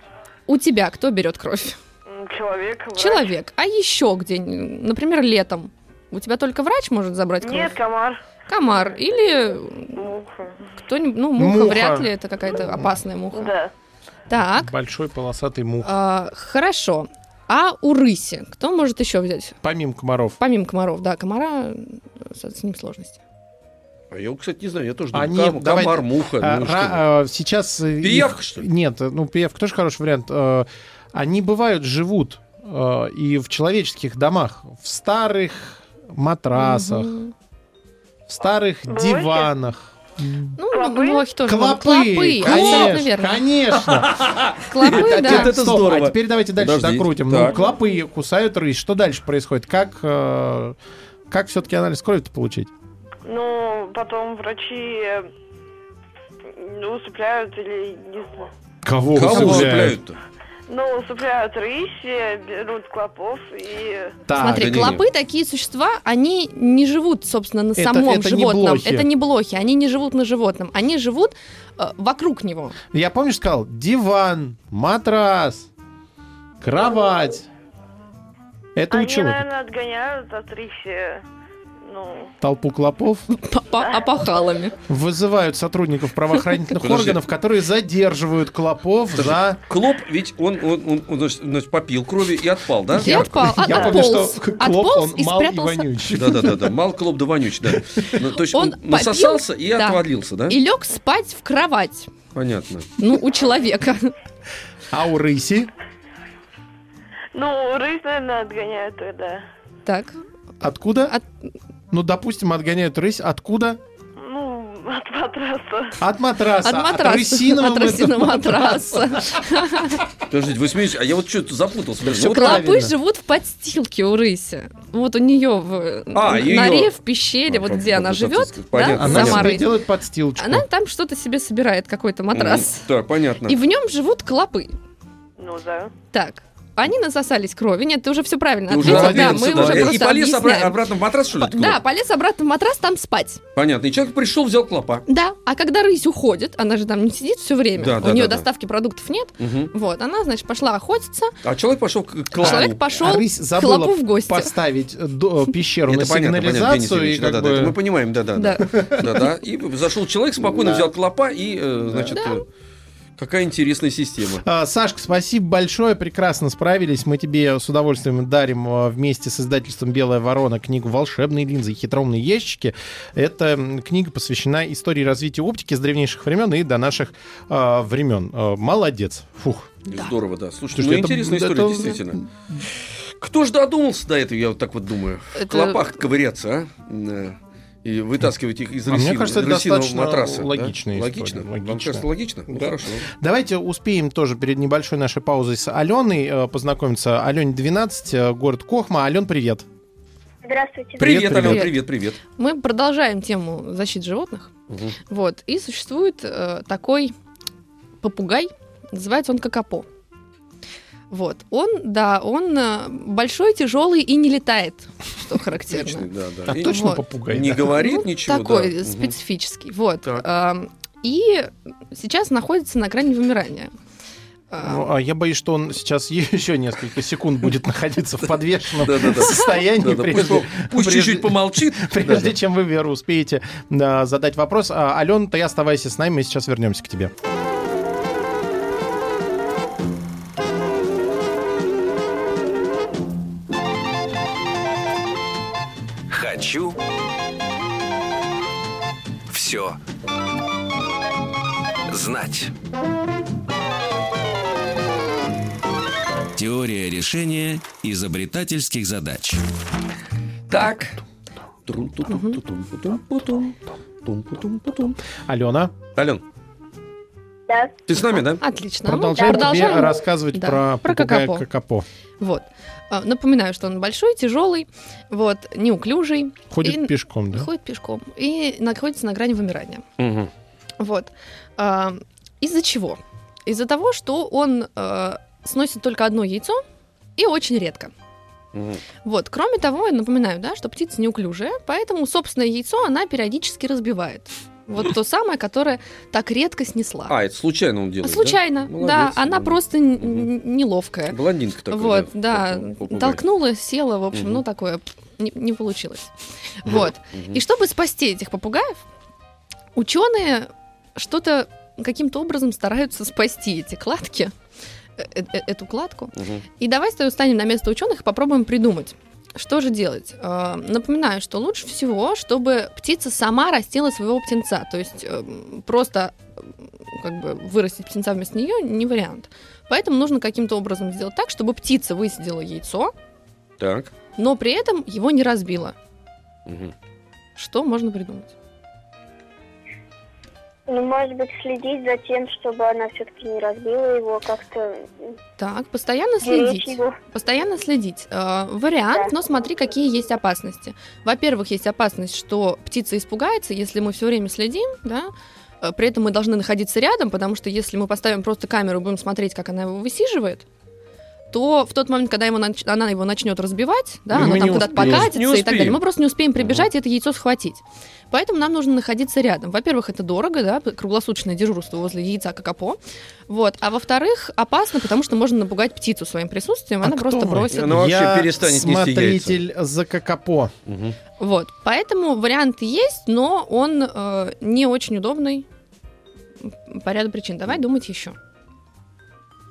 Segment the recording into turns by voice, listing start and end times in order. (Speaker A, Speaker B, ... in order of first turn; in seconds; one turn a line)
Speaker A: 0.5-1.8
Speaker B: 2.1-3.3
Speaker A: 3.0-7.8
Speaker B: 7.4-8.2
Speaker A: 8.5-10.1
Speaker B: 10.0-10.7
Speaker A: 10.8-13.5
Speaker C: 11.4-12.1
Speaker B: 13.3-13.7
Speaker A: 14.3-14.7
Speaker C: 14.5-15.9
Speaker A: 15.8-19.6
Speaker C: 19.6-20.4
Speaker A: 20.4-23.2
Speaker D: 24.1-27.1
Speaker C: 25.1-37.2
Speaker D: 28.0-28.6
Speaker A: 36.5-37.3
Speaker C: 38.3-40.6
Speaker B: 38.9-39.5
Speaker A: 40.6-43.4
Speaker B: 40.7-41.3
Speaker C: 41.4-44.2
Speaker D: 42.5-42.8
Speaker D: 43.7-47.6
Speaker A: 44.7-45.5
Speaker C: 44.8-50.8
Speaker C: 51.3-52.7
Speaker B: 53.2-55.3
Speaker B: 56.4-58.5
Speaker C: 58.8-60.0
Speaker D: 59.1-60.2
Speaker B: 60.7-64.2
Speaker C: 64.3-65.0
Speaker A: 64.4-72.8
Speaker D: 64.5-65.0
Speaker C: 67.8-69.1
Speaker C: 72.9-75.7
Speaker C: 76.6-77.5
Speaker C: 78.8-79.5
Speaker B: 78.9-81.2
Speaker B: 81.8-82.3
Speaker C: 82.4-83.3
Speaker A: 83.3-84.8
Speaker C: 84.9-89.6
Speaker D: 86.8-87.2
Speaker D: 89.2-94.0
Speaker A: 93.0-96.2
Speaker C: 93.1-96.8
Speaker D: 96.2-100.6
Speaker C: 97.7-98.2
Speaker A: 98.5-102.1
Speaker D: 102.3-102.9
Speaker A: 103.0-104.1
Speaker C: 104.9-105.7
Speaker B: 107.3-109.5
Speaker A: 109.9-110.2
Speaker C: 110.6-111.2
Speaker C: 111.9-113.8
Speaker B: 114.2-116.0
Speaker C: 116.0-119.6
Speaker A: 116.6-120.0
Speaker D: 120.3-122.6
Speaker C: 122.0-122.9
Speaker A: 122.3-129.7
Speaker D: 126.1-127.0
Speaker D: 127.5-129.6
Speaker C: 128.9-130.7
Speaker A: 130.4-132.9
Speaker D: 132.3-133.6
Speaker A: 133.5-134.8
Speaker B: 135.4-135.9
Speaker A: 136.1-140.8
Speaker D: 138.7-141.8
Speaker C: 138.8-140.0
Speaker A: 141.3-143.4
Speaker D: 143.6-145.1
Speaker A: 145.1-151.3
Speaker D: 147.8-148.5
Speaker D: 149.4-149.7
Speaker D: 151.4-152.9
Speaker C: 152.4-157.8
Speaker A: 152.4-154.6
Speaker D: 155.9-162.4
Speaker A: 158.4-159.2
Speaker C: 158.7-159.2
Speaker C: 160.4-160.8
Speaker A: 162.1-162.4
Speaker D: 163.2-164.4
Speaker C: 164.4-179.8
Speaker D: 179.9-193.1
Speaker C: 180.7-182.6
Speaker A: 185.3-186.0
Speaker C: 188.9-199.7
Speaker E: 200.4-201.2
Speaker C: 201.0-201.7
Speaker D: 201.0-202.2
Speaker A: 201.4-201.8
Speaker A: 202.4-204.5
Speaker D: 204.7-204.9
Speaker A: 205.1-207.2
Speaker A: 208.0-209.9
Speaker A: 211.1-217.0
Speaker D: 215.7-219.2
Speaker C: 216.5-217.7
Speaker A: 217.7-223.7
Speaker A: 224.5-224.8
Speaker C: 224.6-237.1
Speaker D: 228.2-232.4
Speaker F: 246.1-246.8
Speaker F: 249.3-249.8
Speaker F: 251.9-252.5
Speaker F: 256.4-259.4
Speaker D: 260.5-261.0
Speaker D: 261.7-265.0
Speaker A: 262.1-262.4
Speaker C: 265.3-265.7
Speaker D: 266.0-266.2
Speaker E: 267.5-267.8
Speaker D: 267.9-268.4
Speaker A: 268.4-271.5
Speaker C: 268.9-271.9
Speaker E: 269.4-269.7
Speaker A: 272.2-279.9
Speaker C: 276.5-277.5
Speaker D: 280.0-280.3
Speaker A: 280.8-286.6
Speaker A: 287.2-287.9
Speaker D: 288.5-288.8
Speaker A: 289.0-297.1
Speaker D: 297.1-300.3
Speaker A: 298.0-301.2
Speaker D: 301.1-303.2
Speaker A: 301.7-308.9
Speaker D: 304.1-304.4
Speaker D: 307.1-307.4
Speaker A: 309.8-314.3
Speaker A: 315.0-332.9
Speaker D: 316.2-316.4
Speaker D: 333.6-333.9
Speaker A: 334.2-335.8
Speaker D: 336.5-336.7
Speaker A: 337.4-338.3
Speaker E: 340.7-344.9
Speaker A: 345.4-360.4
Speaker E: 346.2-347.0
Speaker A: 361.3-377.7
Speaker C: 364.1-365.1
Speaker D: 364.2-365.8
Speaker D: 366.4-366.7
Speaker C: 376.8-380.5
Speaker D: 377.5-379.4
Speaker D: 380.7-381.0
Speaker A: 381.2-385.5
Speaker A: 386.4-388.2